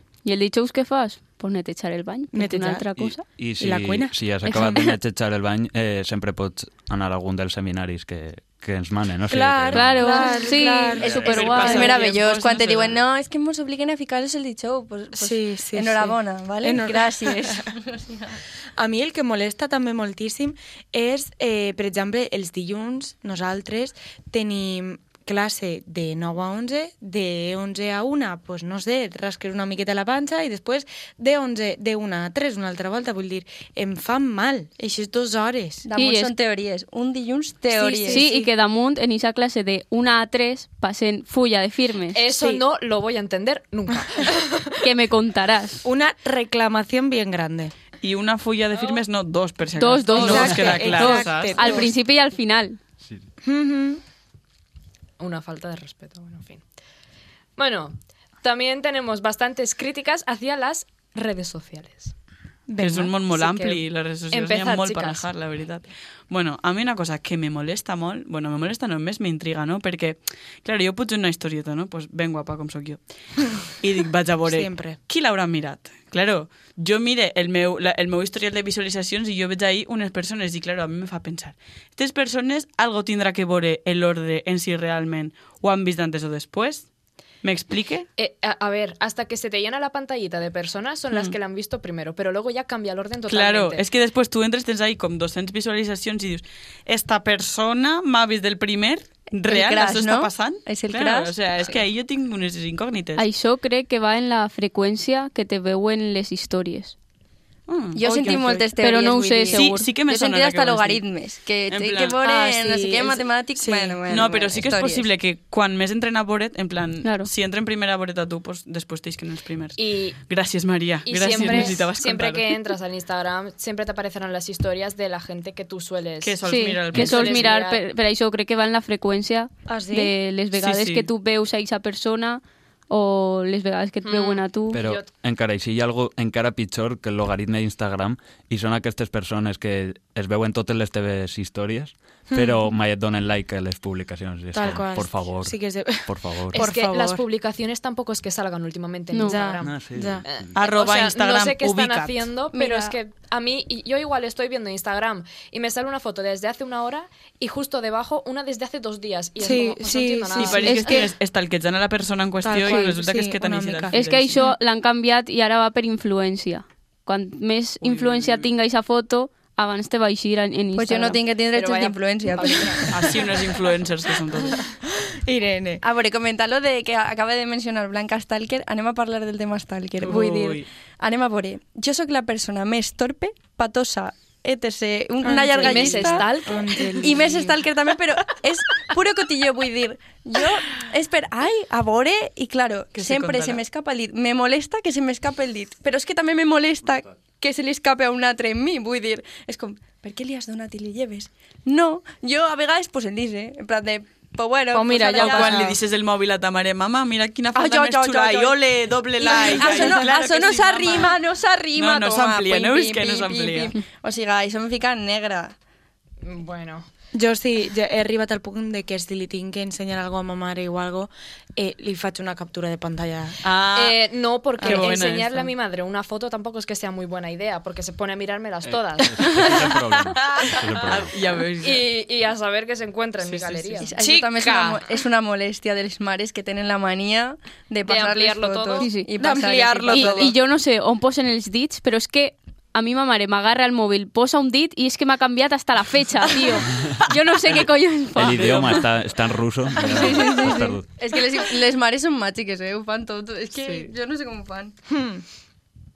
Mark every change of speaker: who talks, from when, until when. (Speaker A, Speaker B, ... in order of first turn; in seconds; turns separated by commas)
Speaker A: 0.2-3.2, Speaker B: 2.3-2.9, Speaker C: 3.0-10.3, Speaker B: 3.6-4.2, Speaker A: 4.5-4.9, Speaker B: 9.3-12.0, Speaker A: 9.7-12.0, Speaker C: 11.0-11.6, Speaker D: 11.0-18.4, Speaker E: 11.1-13.0, Speaker B: 15.2-17.6, Speaker B: 18.8-35.9, Speaker D: 35.8-38.3, Speaker A: 36.0-36.3, Speaker B: 37.7-38.5, Speaker A: 38.0-42.2, Speaker F: 42.1-44.8, Speaker B: 42.3-42.6, Speaker A: 44.8-45.9, Speaker B: 45.8-47.7, Speaker E: 48.0-51.8, Speaker A: 49.8-52.8, Speaker B: 50.1-51.9, Speaker B: 53.4-54.0, Speaker F: 55.2-56.6, Speaker F: 57.6-62.1, Speaker B: 62.7-63.2, Speaker E: 62.8-86.9, Speaker F: 63.3-65.3, Speaker B: 74.5-75.0, Speaker E: 87.4-88.1, Speaker F: 88.2-93.8, Speaker E: 93.3-103.2, Speaker D: 99.4-101.4, Speaker A: 103.2-107.0, Speaker E: 107.7-108.7, Speaker D: 108.0-115.1, Speaker A: 108.8-109.9, Speaker E: 109.5-111.0, Speaker E: 111.7-112.2, Speaker B: 112.2-114.0, Speaker E: 114.1-122.5, Speaker A: 117.0-117.3, Speaker F: 119.8-120.2, Speaker F: 121.0-127.8, Speaker E: 126.2-127.5, Speaker A: 126.4-134.8, Speaker B: 129.7-130.2, Speaker E: 130.6-131.1, Speaker F: 134.0-135.1, Speaker C: 134.7-146.6, Speaker B: 142.3-142.6, Speaker B: 144.5-147.2, Speaker F: 146.5-161.1, Speaker A: 149.1-149.4, Speaker B: 149.3-150.2, Speaker C: 149.6-150.4, Speaker E: 150.6-152.3, Speaker D: 152.5-153.0, Speaker B: 159.4-161.0, Speaker E: 160.4-164.4, Speaker B: 162.4-163.9, Speaker A: 163.9-171.2, Speaker E: 167.8-168.5, Speaker D: 170.8-173.0, Speaker F: 171.5-173.1, Speaker E: 172.9-174.6, Speaker B: 175.2-175.8, Speaker D: 175.8-186.3, Speaker E: 180.0-180.7, Speaker B: 185.2-187.6, Speaker F: 185.6-187.1, Speaker D: 187.0-205.8, Speaker E: 192.9-193.6, Speaker B: 204.7-205.8, Speaker E: 205.1-211.2, Speaker D: 207.6-208.6, Speaker D: 209.2-215.6, Speaker B: 209.6-210.0, Speaker E: 211.8-213.7, Speaker F: 216.2-216.9, Speaker B: 217.1-223.4, Speaker E: 223.4-224.0, Speaker F: 223.7-230.0, Speaker E: 224.6-225.5, Speaker B: 224.6-224.9, Speaker C: 228.7-231.2, Speaker E: 230.2-231.9, Speaker F: 231.6-234.0, Speaker E: 233.2-233.9, Speaker D: 233.8-240.3, Speaker B: 234.0-234.8, Speaker F: 237.9-238.9, Speaker A: 238.8-239.1, Speaker B: 239.2-240.3, Speaker A: 239.9-248.8, Speaker C: 248.1-250.9, Speaker E: 248.2-248.9, Speaker D: 249.9-254.8, Speaker B: 250.2-250.6, Speaker E: 253.6-253.9, Speaker B: 254.9-255.2